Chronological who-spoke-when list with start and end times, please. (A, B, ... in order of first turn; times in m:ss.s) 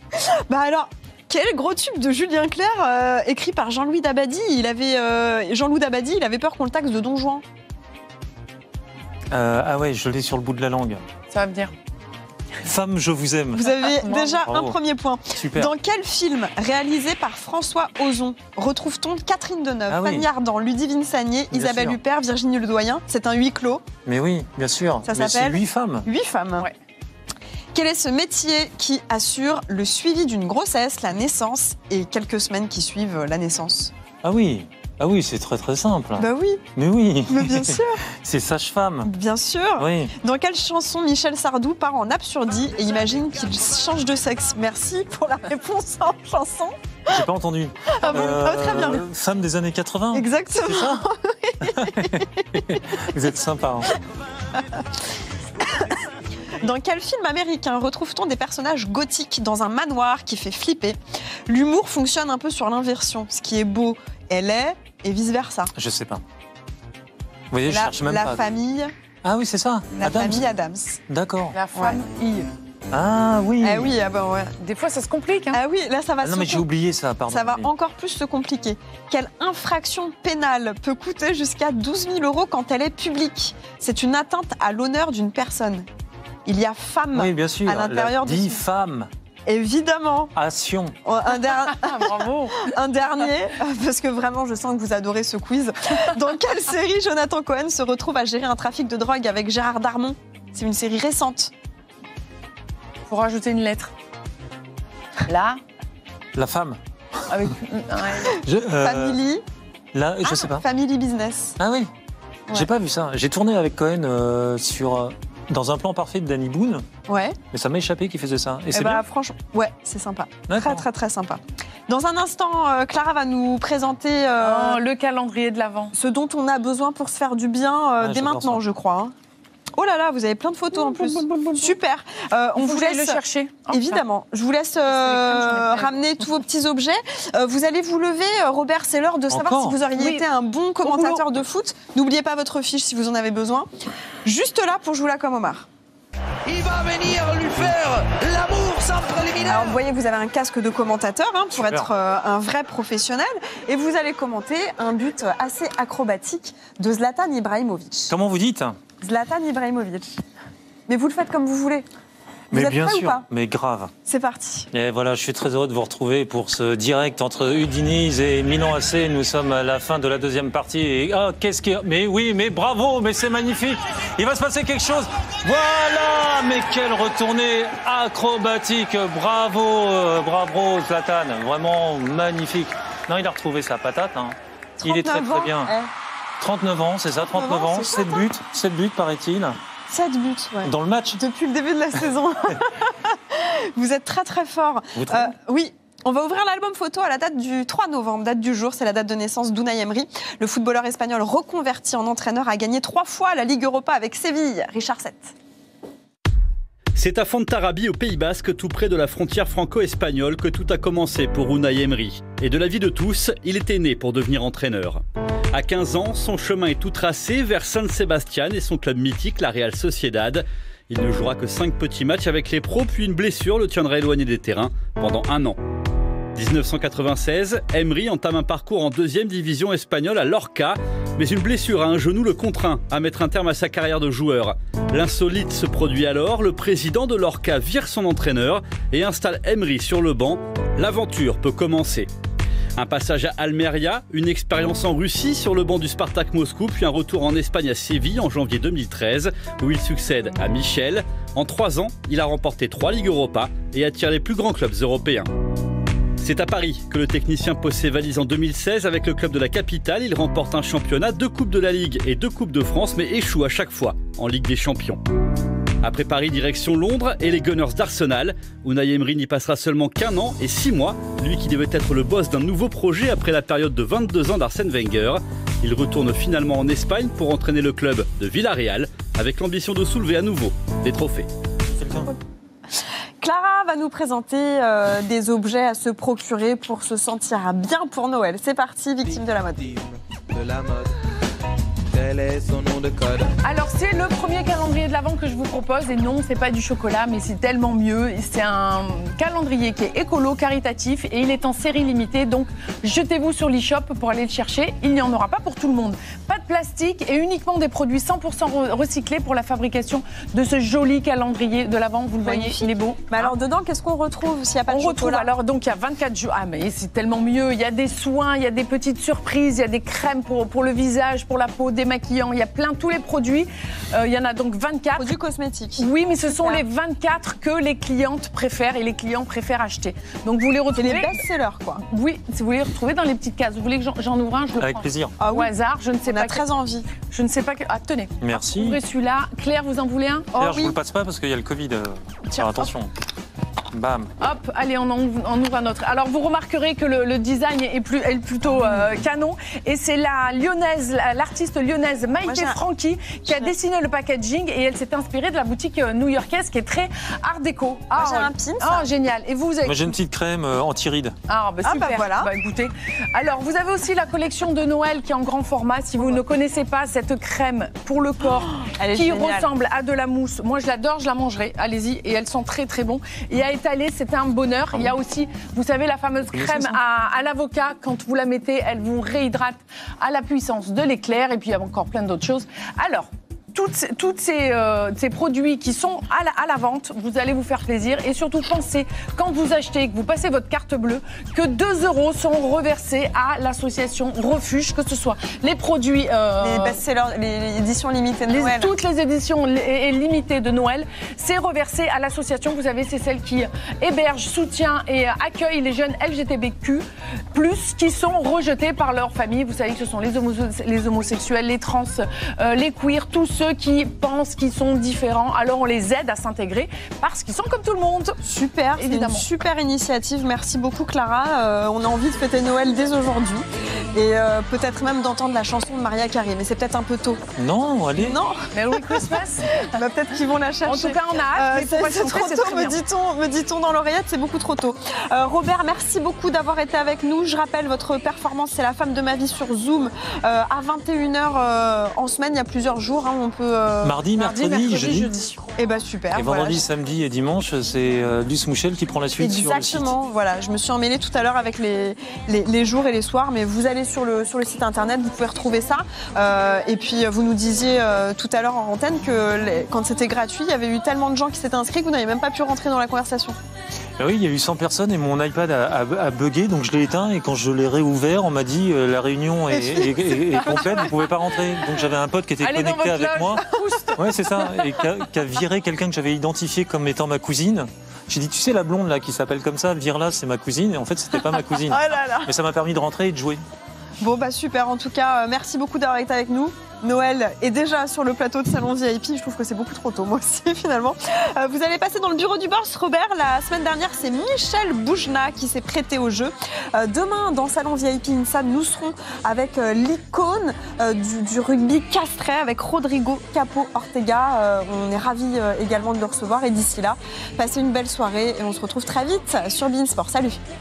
0:00.2-0:07.4 A
0:09.3-0:11.0 B
0:11.3-0:11.7 C
0:12.6-0:13.8 B
0:13.5-0:23.8 A
0:13.9-0:14.4 C
0:14.5-0:14.8 B
0:15.4-0:15.7 B
0:19.9-0:20.3 B
0:21.5-0:22.0 B
0:24.0-0:26.1 B
0:25.1-0:26.7 A
0:27.8-0:33.9 A
0:34.2-0:39.1 B
0:36.2-0:36.6 A
0:37.3-0:38.0 A
0:39.0-0:47.2 A
0:39.8-0:40.1 B
0:47.1-0:51.1 B
0:47.9-0:49.0 A
0:50.1-0:52.8 A
0:51.6-0:53.9 B
0:55.6-0:56.0 A
0:56.6-1:05.7 A
1:05.8-1:06.2 B
1:07.5-1:08.4 B
1:07.7-1:08.9 A
1:09.2-1:10.5 B
1:10.0-1:11.0 A
1:11.1-1:11.6 B
1:11.5-1:12.5 C
1:11.8-1:12.0 A
1:12.9-1:13.9 B
1:13.6-1:14.5 A
1:14.6-1:15.6 C
1:15.5-1:16.6 A
1:16.2-1:17.7 B
1:17.3-1:25.9 A
1:26.5-1:28.6 A
1:27.1-1:29.1 B
1:29.5-1:30.3 A
1:30.4-1:31.0 B
1:31.0-1:41.5 A
1:31.7-1:32.7 C
1:43.1-1:43.9 C
1:45.3-1:45.6 C
1:46.4-1:47.5 B
1:47.3-1:48.4 C
1:48.3-1:49.2 B
1:48.6-1:49.4 A
1:49.9-1:50.6 B
1:50.2-1:51.6 A
1:51.6-1:51.9 B
1:52.5-1:56.8 B
1:57.1-1:57.4 A
1:57.5-1:59.0 B
1:58.7-2:04.8 A
2:00.5-2:00.9 B
2:04.4-2:05.9 C
2:05.9-2:09.1 A
2:08.0-2:08.6 B
2:09.8-2:23.7 A
2:10.7-2:11.8 C
2:12.6-2:14.0 C
2:14.9-2:15.9 C
2:19.3-2:19.8 B
2:20.0-2:20.2 C
2:20.8-2:21.2 C
2:24.2-2:25.7 A
2:26.5-2:29.8 D
2:29.4-2:38.1 A
2:31.5-2:31.9 B
2:38.1-2:38.8 B
2:39.0-2:40.2 A
2:40.9-2:41.9 A
2:42.5-2:43.3 A
2:42.5-2:43.9 B
2:44.1-2:44.7 A
2:44.7-3:05.7 B
3:04.8-3:05.9 A
3:06.4-3:09.6 B
3:07.3-3:08.2 A
3:09.9-3:25.3 A
3:10.6-3:11.2 B
3:15.0-3:15.3 B
3:27.0-3:45.6 E
3:46.4-4:02.1 E
4:02.8-4:15.3 E
4:16.2-4:25.0 E
4:25.8-4:41.3 E
4:41.7-4:42.1 B
4:43.2-4:49.6 A
4:49.2-4:50.9 D
4:51.9-4:53.3 D
4:53.4-5:13.3 C
5:12.2-5:15.3 A
5:14.7-5:25.1 C
5:25.0-5:26.6 A
5:25.8-5:31.2 C
5:30.8-5:31.8 A
5:31.8-5:36.4 C
5:34.6-5:35.2 B
5:35.2-5:35.5 A
5:36.0-5:36.9 A
5:37.0-5:40.3 C
5:38.2-5:38.8 B
5:40.3-5:40.8 A
5:40.4-5:42.9 B
5:42.3-5:42.7 A
5:43.7-5:44.1 B
5:44.2-5:59.9 C
5:52.2-5:52.6 A
5:53.3-5:53.5 A
5:58.0-5:58.9 A
5:59.6-6:01.2 B
6:01.3-6:36.8 C
6:01.6-6:02.3 A
6:08.6-6:09.5 A
6:16.3-6:16.8 B
6:36.4-6:38.7 A
6:38.3-6:58.2 C
6:58.2-7:07.2 A
6:58.8-6:59.2 C
7:07.4-7:08.2 B
7:08.0-7:24.0 A
7:08.5-7:09.7 C
7:10.6-7:12.8 C
7:23.8-7:25.1 B
7:24.2-7:25.4 C
7:25.6-7:26.6 A
7:26.1-7:29.9 B
7:29.2-7:43.4 A
7:44.0-7:53.4 B
7:49.5-7:51.2 A
7:52.4-7:54.9 C
7:54.0-8:03.4 B
8:01.5-8:02.3 A
8:04.0-8:30.4 A